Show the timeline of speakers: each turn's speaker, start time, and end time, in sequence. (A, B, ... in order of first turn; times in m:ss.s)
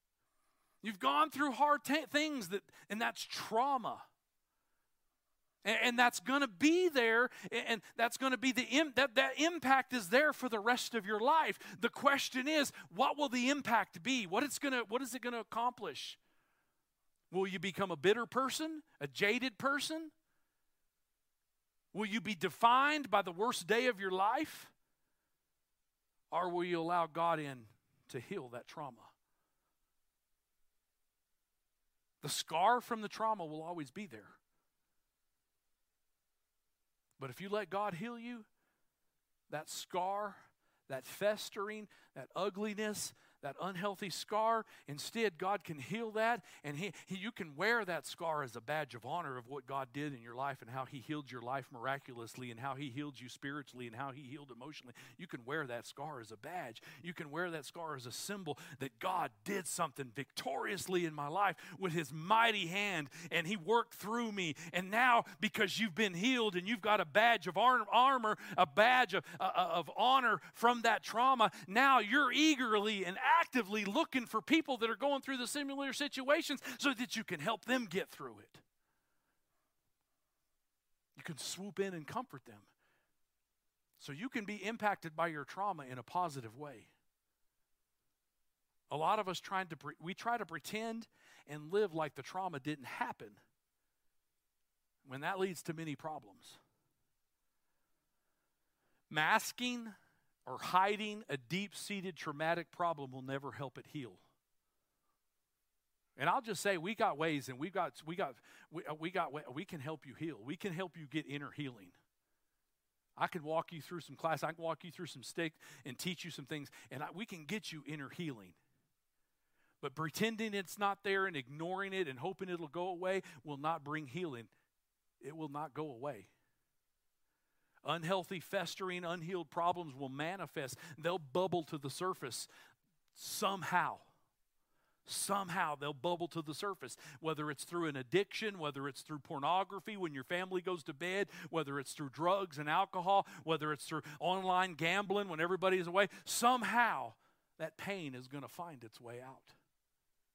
0:00.8-0:04.0 A
0:05.6-0:16.2 A
0:17.3-0:20.1 A
0:21.9-0:24.7 A
0:26.3-0:29.1 A
0:32.2-0:34.4 A
0:37.2-0:38.5 A
0:39.5-1:18.6 A
1:21.2-1:22.7 A
1:24.0-1:26.9 A
1:28.9-1:33.4 A
1:35.0-1:36.6 A
1:39.1-1:39.9 A
1:40.4-1:44.2 A
1:46.2-1:52.0 A
1:53.2-1:58.6 A
1:59.8-2:04.5 A
2:05.2-2:06.3 A
2:07.8-2:12.5 A
2:13.1-2:14.1 A
2:15.0-2:29.5 A